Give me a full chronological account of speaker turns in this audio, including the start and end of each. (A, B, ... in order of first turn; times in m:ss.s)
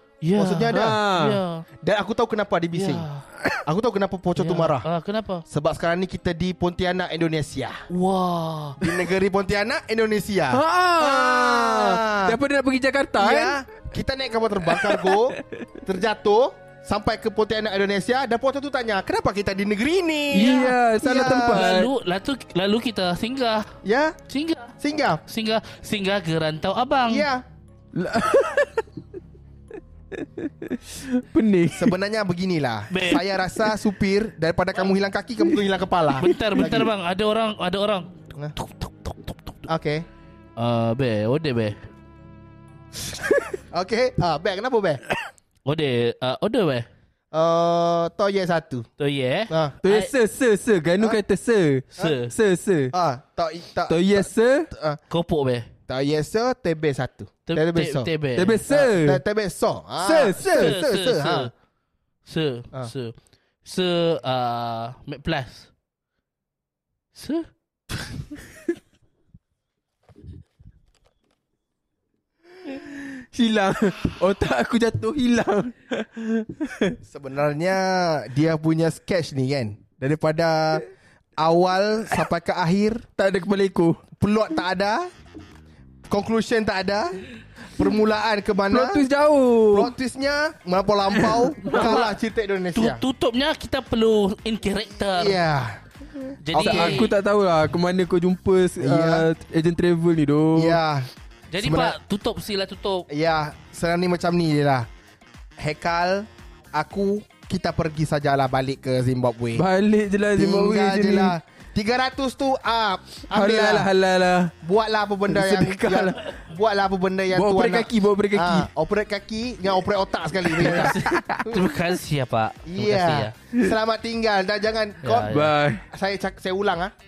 0:00.2-0:01.6 A
0:00.4-0:01.0 B
0:00.7-0:01.4 C
0:01.8-0:03.0 B
0:02.7-0:03.2 A
0:03.6-0:04.8 B
0:04.4-0:05.4 A
0:05.5-0:07.9 B
0:07.9-0:08.9 A
0:08.8-0:12.4 B
0:10.5-0:13.6 C
0:13.2-0:21.7 B
0:14.6-0:15.6 C
0:20.3-0:21.9 C
0:20.4-0:20.7 A
0:21.4-0:23.7 A
0:23.8-0:24.2 B
0:24.3-0:24.7 A
0:24.8-0:25.2 B
0:25.2-0:27.3 A
0:27.1-0:27.4 B
0:27.9-0:28.8 C
0:30.1-0:31.9 C
0:31.7-0:36.9 B
0:32.9-0:33.2 A
0:36.2-0:39.6 A
0:39.7-0:40.0 B
0:40.6-0:41.8 A
0:43.7-0:45.0 B
0:45.6-0:46.9 A
0:47.3-0:48.9 B
0:49.0-0:50.1 A
0:49.5-0:49.7 B
0:49.8-0:52.9 C
0:52.0-0:52.3 A
0:52.9-0:55.0 B
0:53.9-0:54.7 C
0:55.1-0:55.7 A
0:55.9-0:58.1 B
0:57.5-0:58.6 A
0:58.4-0:59.2 C
0:58.7-1:01.5 B
1:00.0-1:00.8 C
1:00.4-1:01.5 A
1:02.2-1:05.7 A
1:07.1-1:07.5 A
1:12.6-1:17.0 C
1:17.0-1:20.9 B
1:21.4-1:23.0 B
1:23.2-1:24.0 C
1:24.2-1:25.1 B
1:26.1-1:27.2 B
1:27.7-1:29.0 B
1:28.7-1:29.9 C
1:29.7-1:33.0 B
1:31.1-1:32.0 C
1:31.7-1:32.1 A
1:32.7-1:35.4 A
1:35.1-1:35.8 B
1:36.4-1:37.1 A
1:36.5-1:37.1 B
1:36.6-1:40.8 C
1:38.8-1:39.3 B
1:40.5-1:41.1 B
1:41.5-1:43.1 A
1:41.6-1:42.0 B
1:43.1-1:44.9 B
1:45.6-1:49.6 B
1:49.5-1:51.4 C
1:50.3-1:53.9 B
1:53.3-1:54.5 C
1:54.6-2:01.0 B
1:55.3-1:56.2 C
1:57.3-1:58.7 C
2:00.6-2:01.6 C
2:00.6-2:03.3 A
2:02.7-2:05.3 B
2:05.0-2:05.5 A
2:05.3-2:05.8 C
2:05.9-2:06.9 B